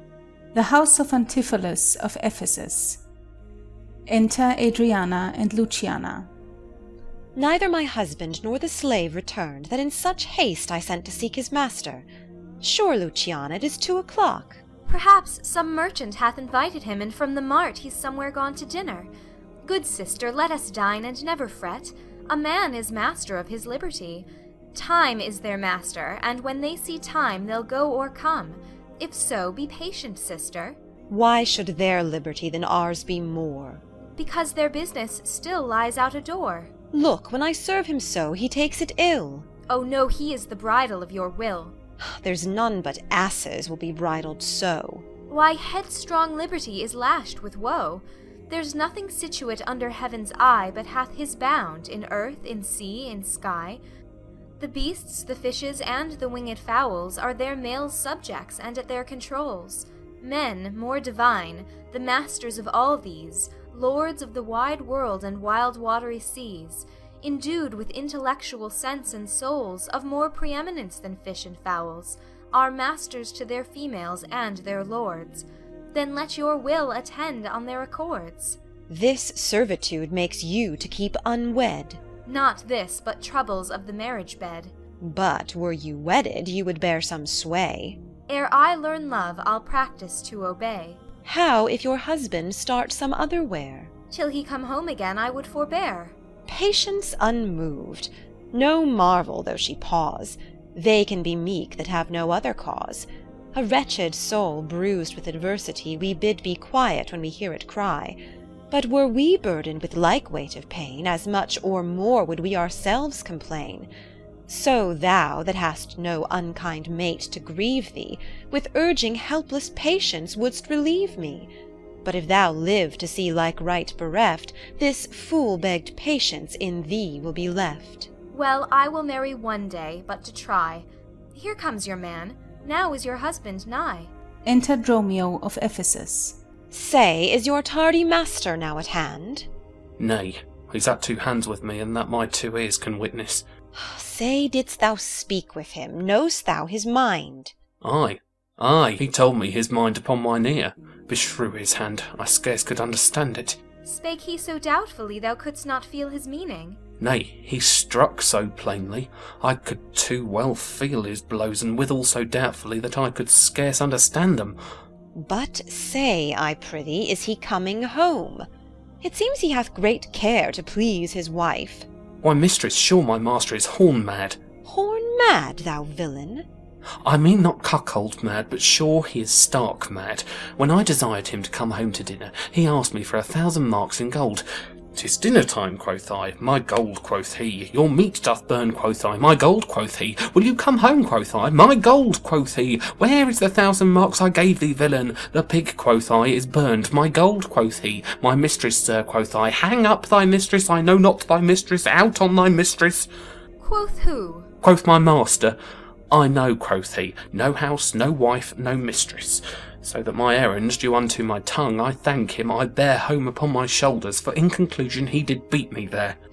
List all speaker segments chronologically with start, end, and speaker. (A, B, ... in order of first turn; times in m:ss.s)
0:00.5-0:03.0 A
0:04.1-0:06.3 A
0:07.4-0:12.0 B
0:12.6-0:14.6 B
0:14.8-0:19.1 C
0:19.6-0:30.8 C
0:31.1-0:33.8 B
0:34.2-0:36.7 C
0:36.9-0:39.4 B
0:39.7-0:41.8 C
0:42.0-0:45.0 B
0:45.3-0:53.8 C
0:54.6-1:18.6 C
1:18.9-1:22.0 B
1:22.2-1:24.7 C
1:25.0-1:28.0 B
1:28.3-1:31.0 C
1:31.2-1:33.9 B
1:34.1-1:36.1 C
1:36.5-1:48.2 B
1:48.7-1:53.9 B
1:54.5-2:01.5 B
2:02.0-2:08.1 B
2:08.3-2:14.1 C
2:14.4-2:16.4 A
2:16.7-2:19.5 B
2:20.0-2:23.4 D
2:23.7-2:27.5 B
2:27.8-2:33.6 D
2:33.8-2:36.8 C
2:37.0-2:44.6 D
2:45.1-2:48.4 B
2:49.0-2:51.9 B
2:52.2-2:54.4 D
2:54.6-2:56.4 B
2:57.0-3:23.1 D
3:23.6-3:24.5 C
3:24.6-3:25.6 D
3:26.1-3:36.2 D